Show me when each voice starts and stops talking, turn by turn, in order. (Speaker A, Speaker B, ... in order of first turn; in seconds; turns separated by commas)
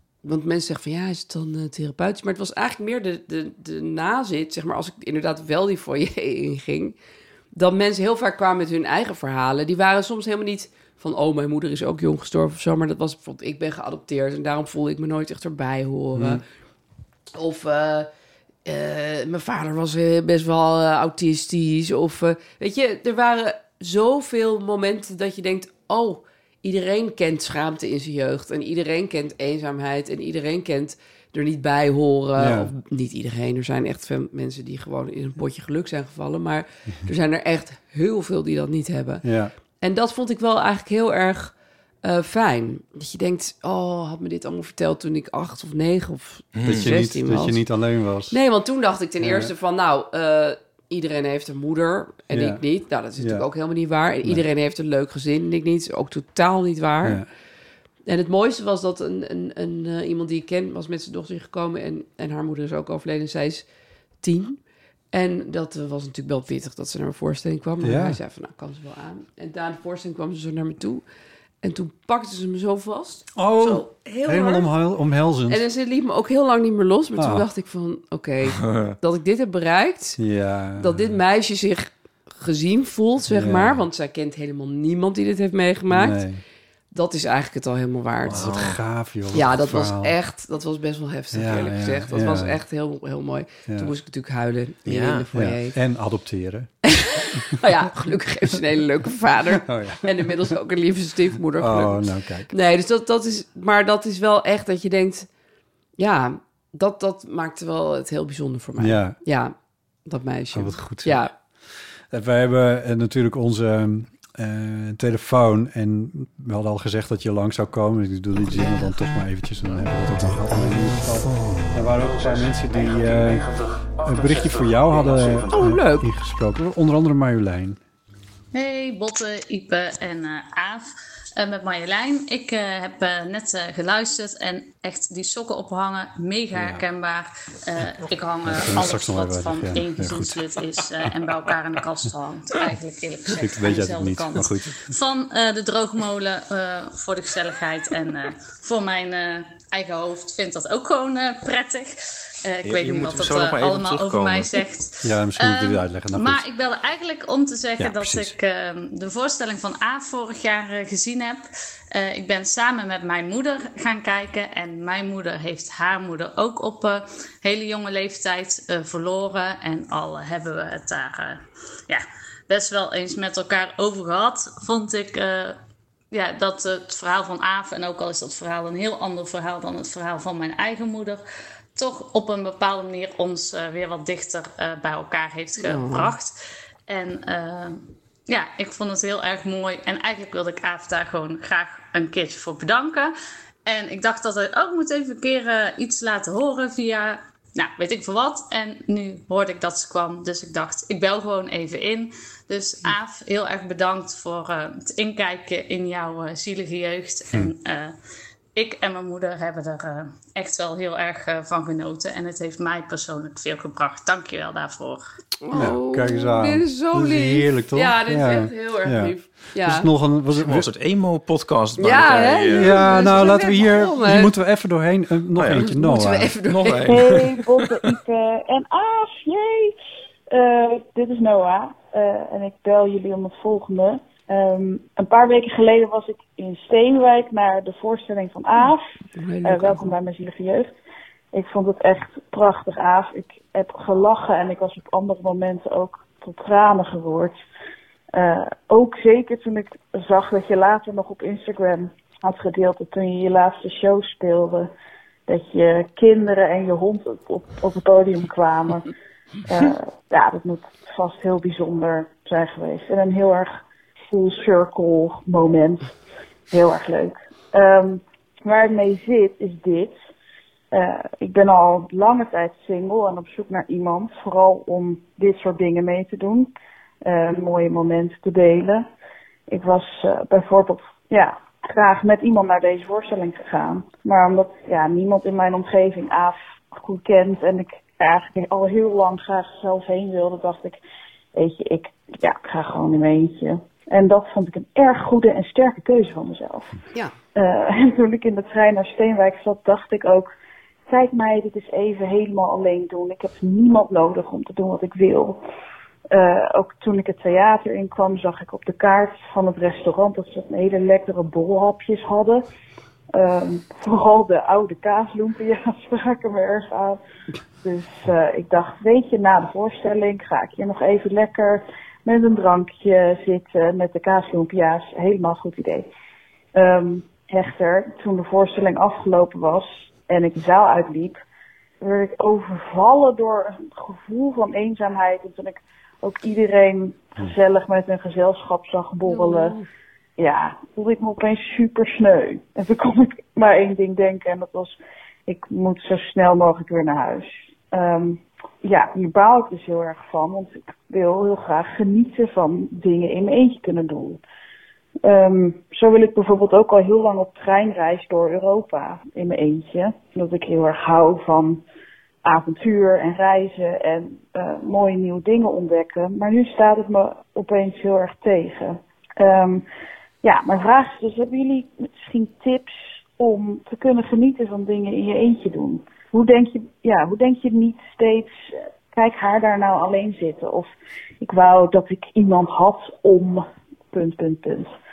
Speaker A: 0.2-7.0, Speaker A: 7.5-16.4, Speaker B: 16.1-16.4, Speaker A: 17.3-18.1, Speaker A: 18.6-39.2, Speaker B: 32.4-32.7, Speaker B: 39.2-39.5, Speaker A: 39.8-47.6, Speaker C: 46.6-46.9, Speaker B: 46.6-48.4, Speaker A: 48.3-57.2, Speaker B: 49.2-49.5, Speaker B: 52.3-52.6, Speaker B: 53.2-53.5, Speaker B: 57.0-57.3, Speaker A: 58.1-63.6, Speaker A: 64.2-64.6, Speaker A: 65.1-71.0, Speaker B: 67.8-68.2, Speaker A: 71.6-74.7, Speaker B: 73.3-75.6, Speaker A: 75.5-80.2, Speaker B: 77.2-77.5, Speaker C: 78.6-79.0, Speaker B: 80.2-81.2, Speaker A: 80.8-86.2, Speaker B: 83.3-83.8, Speaker B: 85.9-86.4, Speaker A: 86.9-88.5, Speaker B: 88.2-90.2, Speaker C: 88.3-88.8, Speaker A: 89.3-95.8, Speaker B: 91.3-92.6, Speaker B: 93.7-93.9, Speaker C: 94.9-95.3, Speaker B: 95.3-96.7, Speaker A: 96.8-105.3, Speaker B: 97.3-97.7, Speaker B: 99.5-100.5, Speaker B: 101.6-102.5, Speaker A: 106.0-109.5, Speaker B: 108.8-109.2, Speaker A: 110.1-111.3, Speaker B: 110.5-111.2, Speaker B: 112.1-127.8, Speaker A: 125.5-126.1, Speaker D: 128.5-175.6, Speaker B: 136.5-136.8, Speaker B: 138.5-140.4, Speaker B: 143.3-144.9, Speaker C: 152.6-154.6, Speaker B: 155.0-156.4, Speaker B: 157.8-158.3, Speaker D: 176.1-181.2, Speaker D: 181.8-186.3, Speaker A: 185.6-186.1, Speaker D: 186.9-193.1, Speaker D: 193.7-207.9, Speaker D: 208.6-215.0, Speaker A: 215.4-219.9, Speaker B: 215.5-220.7, Speaker C: 220.4-223.2, Speaker A: 221.8-224.3, Speaker B: 222.5-226.3, Speaker C: 225.4-225.7, Speaker A: 225.6-227.0, Speaker C: 226.5-227.6, Speaker E: 226.9-229.8, Speaker E: 230.3-238.8, Speaker A: 239.2-239.9, Speaker E: 239.4-240.7, Speaker E: 241.3-247.4, Speaker E: 248.1-254.7, Speaker E: 255.3-258.9, Speaker E: 259.4-263.6, Speaker E: 264.1-265.9, Speaker E: 266.5-270.0, Speaker E: 270.7-276.5, Speaker E: 277.0-278.9, Speaker E: 279.5-290.8, Speaker E: 291.4-296.8, Speaker E: 297.4-300.3, Speaker E: 300.9-305.4, Speaker E: 306.1-312.4, Speaker E: 313.1-317.0, Speaker E: 317.6-325.9, Speaker E: 326.6-331.2, Speaker E: 331.8-339.6, Speaker A: 339.1-339.7, Speaker E: 340.2-354.2, Speaker E: 355.0-361.6, Speaker E: 362.2-369.6, Speaker E: 370.2-380.7, Speaker E: 381.2-384.7